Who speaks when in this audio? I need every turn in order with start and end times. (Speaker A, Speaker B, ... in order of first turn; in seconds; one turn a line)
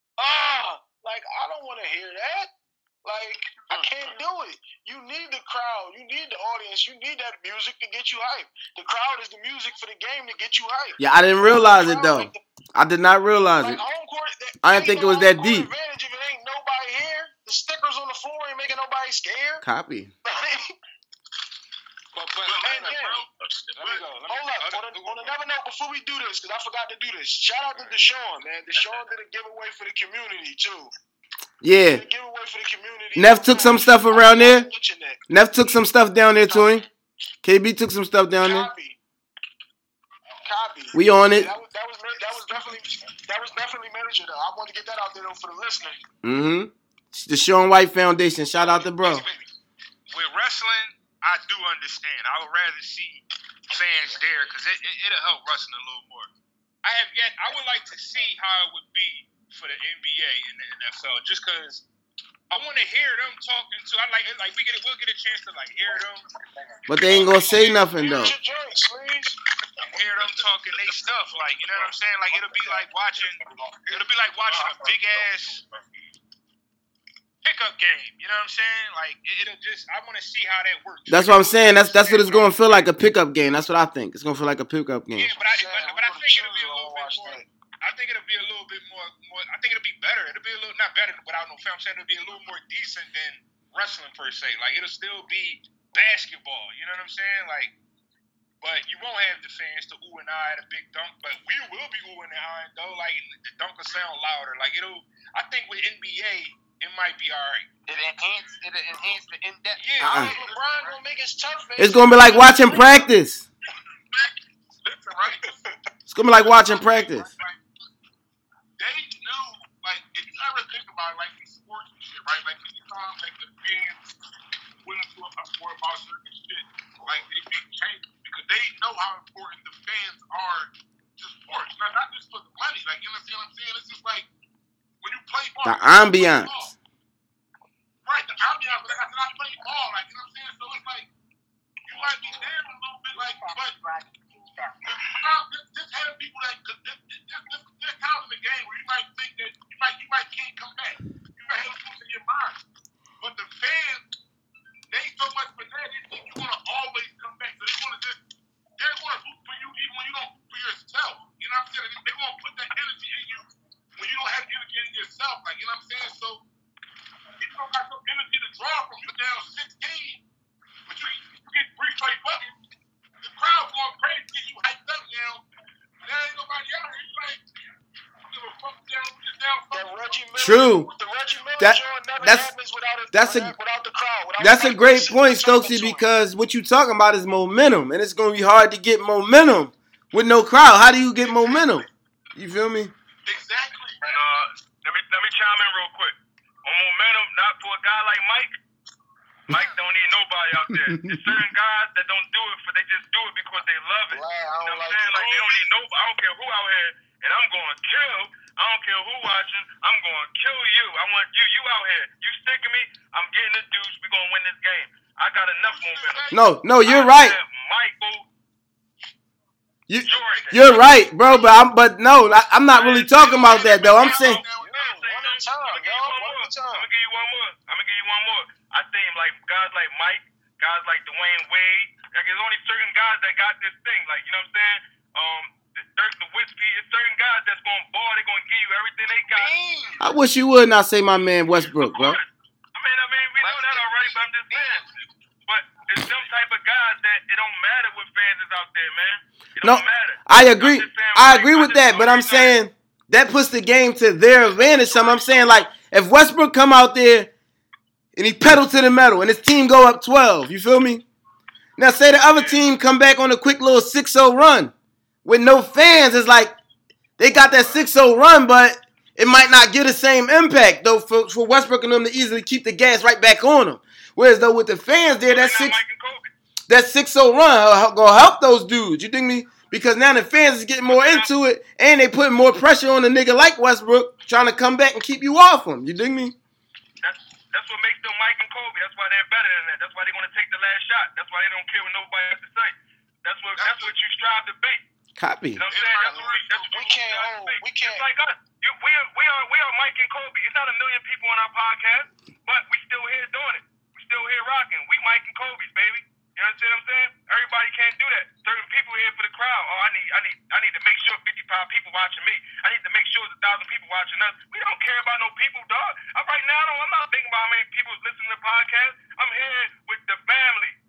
Speaker A: 0.2-2.5
Speaker A: 3.0-12.4
Speaker B: 11.0-13.8
Speaker A: 13.6-19.6
Speaker B: 14.6-15.7
Speaker B: 19.6-20.1
Speaker A: 20.2-20.7
Speaker C: 22.1-23.0
Speaker D: 22.4-24.1
Speaker A: 22.6-23.2
Speaker C: 23.7-25.4
Speaker A: 24.3-30.9
Speaker B: 31.6-32.0
Speaker A: 31.9-35.2
Speaker B: 33.1-34.7
Speaker B: 35.3-36.8
Speaker A: 36.5-36.8
Speaker B: 37.4-38.7
Speaker A: 38.4-39.0
Speaker A: 40.4-46.0
Speaker B: 40.9-41.5
Speaker B: 46.2-49.2
Speaker C: 48.7-49.5
Speaker C: 50.1-56.3
Speaker C: 56.8-61.8
Speaker C: 62.5-66.2
Speaker B: 66.9-68.3
Speaker A: 66.9-69.4
Speaker C: 69.8-73.4
Speaker D: 73.4-75.2
Speaker C: 73.9-75.6
Speaker C: 77.4-82.9
Speaker B: 81.1-85.3
Speaker C: 85.1-97.7
Speaker A: 85.5-87.5
Speaker C: 98.6-107.7
Speaker E: 107.9-109.8
Speaker C: 109.8-110.6
Speaker A: 110.0-113.1
Speaker D: 110.2-110.9
Speaker B: 111.8-113.5
Speaker D: 114.8-115.6
Speaker A: 115.3-115.7
Speaker B: 116.1-117.3
Speaker D: 116.2-117.5
Speaker D: 118.8-124.0
Speaker D: 124.8-134.2
Speaker D: 135.0-136.7
Speaker B: 135.6-136.7
Speaker D: 138.0-141.1
Speaker D: 141.9-143.8
Speaker E: 142.1-142.4
Speaker E: 143.1-145.2
Speaker D: 144.9-152.6
Speaker D: 153.2-154.0
Speaker D: 154.9-158.2
Speaker D: 158.8-166.4
Speaker D: 167.4-170.2
Speaker D: 170.9-172.5
Speaker D: 173.2-175.4
Speaker D: 176.0-177.4
Speaker D: 178.3-180.2
Speaker A: 179.7-186.1
Speaker B: 180.3-180.9
Speaker B: 181.6-182.5
Speaker B: 183.1-183.5
Speaker B: 184.4-192.9
Speaker D: 193.2-194.0
Speaker F: 194.0-198.6
Speaker F: 199.5-218.3
Speaker B: 200.7-201.4
Speaker A: 204.1-205.4
Speaker D: 205.0-205.5
Speaker D: 215.6-216.5
Speaker B: 216.3-217.4
Speaker B: 219.9-224.4
Speaker F: 220.0-220.7
Speaker D: 220.1-220.8
Speaker D: 222.7-225.2
Speaker F: 224.1-239.5
Speaker A: 224.4-226.9
Speaker E: 239.1-240.1
Speaker B: 240.0-242.2
Speaker F: 241.8-244.8
Speaker E: 243.4-244.9
Speaker F: 245.4-252.6
Speaker B: 249.6-257.3
Speaker B: 258.1-261.0
Speaker B: 261.8-264.7
Speaker B: 265.2-266.5
Speaker B: 267.2-275.8
Speaker F: 275.1-276.3
Speaker B: 276.7-286.3
Speaker F: 280.9-281.3
Speaker F: 287.0-294.8
Speaker D: 293.6-293.9
Speaker B: 295.2-295.6
Speaker F: 295.6-320.8
Speaker D: 295.6-297.0
Speaker A: 296.0-298.1